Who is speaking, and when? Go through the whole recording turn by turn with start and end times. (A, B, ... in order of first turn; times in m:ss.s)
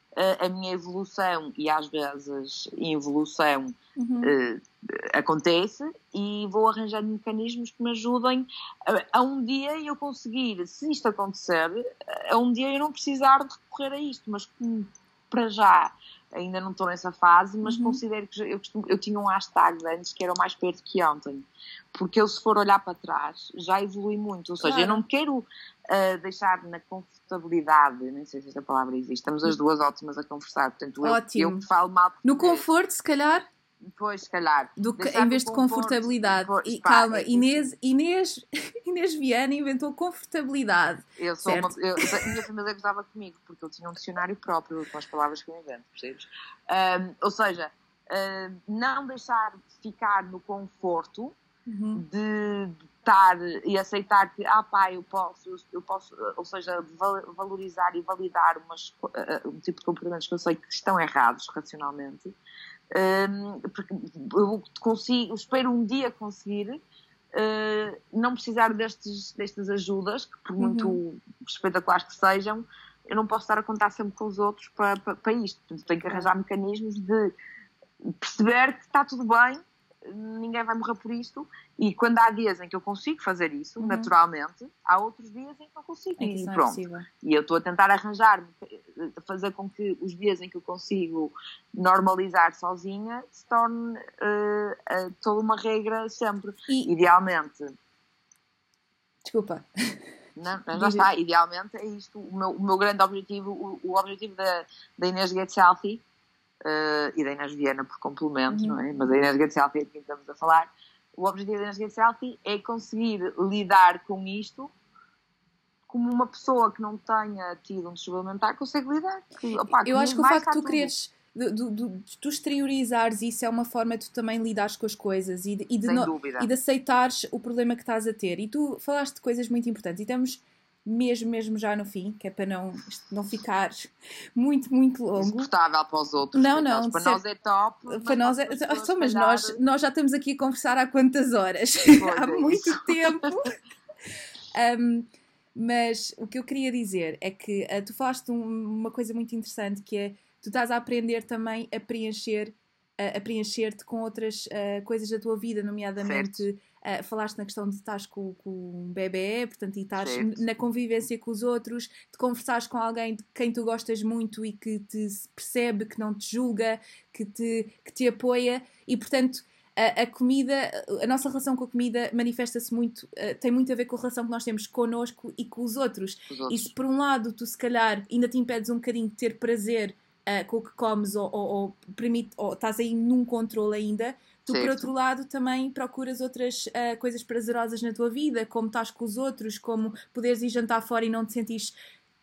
0:00.2-0:32.6 A
0:04.0-0:04.3 B
0:17.6-0:18.0 B
0:24.6-0:25.0 B
0:31.0-0:31.6 B
0:32.2-0:33.5 B
0:33.9-0:37.7 A
0:34.8-0:42.4 B
0:41.2-0:51.4 A
0:51.7-0:52.0 B
0:51.9-1:02.4 A
1:02.9-1:06.8 A
1:07.3-1:17.3 A
1:10.6-1:11.0 B
1:18.0-1:37.7 A
1:23.8-1:24.1 B
1:26.2-1:27.1 B
1:39.2-1:39.6 B
1:40.4-1:46.0 A
1:40.7-1:41.1 B
1:46.6-1:54.7 A
1:48.5-1:48.8 B
1:55.9-2:00.9 A
1:59.5-2:15.5 B
2:05.8-2:06.5 A
2:15.2-2:19.6 A
2:16.3-2:17.2 B
2:17.9-2:23.6 B
2:22.0-2:23.5 A
2:24.5-3:11.7 B
2:36.0-2:36.4 A
2:40.0-2:40.4 A
2:56.3-2:56.7 A
3:04.5-3:04.9 A